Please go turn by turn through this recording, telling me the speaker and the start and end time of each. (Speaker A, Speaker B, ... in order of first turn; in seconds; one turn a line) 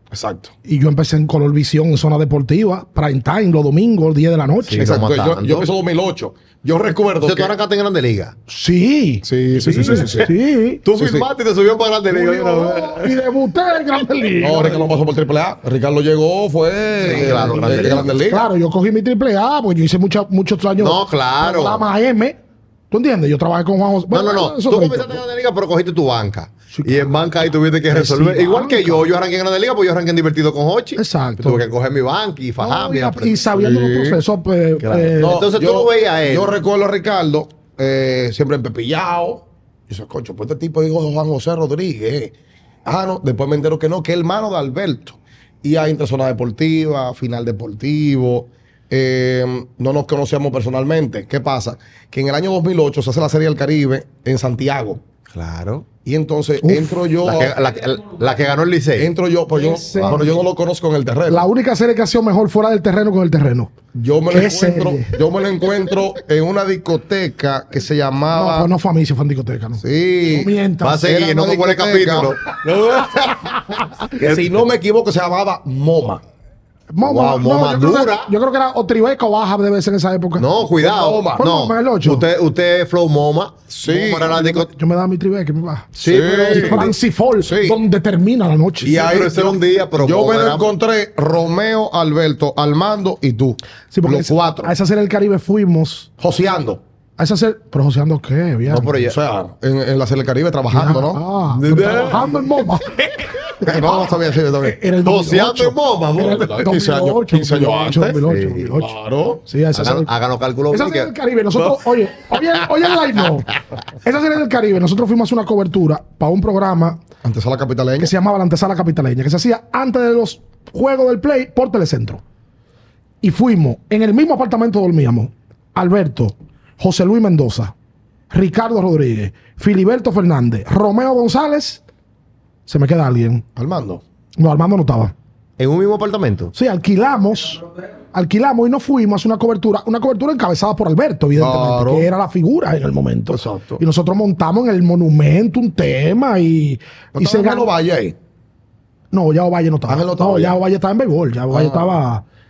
Speaker A: 0.1-0.5
Speaker B: 0.7-5.0
Speaker C: 4.7-5.7
Speaker A: 4.8-7.5
Speaker C: 7.2-8.4
Speaker B: 8.5-10.8
Speaker A: 9.2-10.3
Speaker C: 9.7-10.3
Speaker C: 10.8-13.3
Speaker A: 11.0-11.3
Speaker B: 12.1-14.9
Speaker A: 14.4-18.5
Speaker B: 17.0-22.4
Speaker C: 17.0-18.2
Speaker C: 20.8-21.8
Speaker B: 22.9-25.2
Speaker C: 24.1-33.7
Speaker B: 26.7-27.1
Speaker B: 27.9-29.1
Speaker B: 31.0-31.6
Speaker B: 32.6-35.4
Speaker A: 33.6-34.2
Speaker C: 34.8-36.5
Speaker A: 35.2-42.3
Speaker A: 42.9-55.0
Speaker C: 55.3-55.9
Speaker A: 56.0-57.6
Speaker B: 56.6-57.0
Speaker C: 57.2-59.1
Speaker A: 59.0-61.5
Speaker B: 59.5-60.4
Speaker C: 60.0-60.4
Speaker B: 61.3-63.7
Speaker A: 63.9-68.7
Speaker B: 64.3-65.2
Speaker B: 68.3-71.1
Speaker A: 69.8-73.3
Speaker C: 70.8-72.5
Speaker B: 73.0-74.1
Speaker A: 74.2-76.2
Speaker C: 74.2-74.5
Speaker B: 76.9-80.5
Speaker C: 77.0-78.3
Speaker C: 80.4-84.7
Speaker A: 80.8-81.4
Speaker B: 81.4-82.3
Speaker A: 83.7-84.4
Speaker B: 84.3-86.0
Speaker C: 86.0-86.9
Speaker A: 86.0-86.9
Speaker B: 86.5-89.1
Speaker A: 87.4-87.8
Speaker A: 88.8-94.7
Speaker C: 88.9-90.7
Speaker B: 93.9-96.1
Speaker A: 96.2-96.8
Speaker B: 97.2-99.0
Speaker C: 98.7-99.2
Speaker A: 99.0-101.2
Speaker B: 100.7-104.0
Speaker C: 101.5-102.6
Speaker A: 101.8-102.2
Speaker A: 103.6-104.8
Speaker B: 104.6-108.9
Speaker C: 105.0-106.8
Speaker A: 106.3-109.4
Speaker C: 108.3-108.7
Speaker B: 109.5-110.1
Speaker C: 109.7-111.9
Speaker B: 110.7-117.0
Speaker A: 117.2-118.1
Speaker B: 118.0-122.2
Speaker B: 123.2-127.7
Speaker B: 128.3-131.8
Speaker B: 132.7-133.4
Speaker A: 133.6-134.0
Speaker B: 134.4-135.1
Speaker C: 135.6-136.5
Speaker B: 136.5-147.7
Speaker A: 141.4-142.1
Speaker A: 143.3-143.8
Speaker A: 147.2-148.2
Speaker B: 149.1-152.2
Speaker A: 149.9-150.6
Speaker A: 151.5-152.0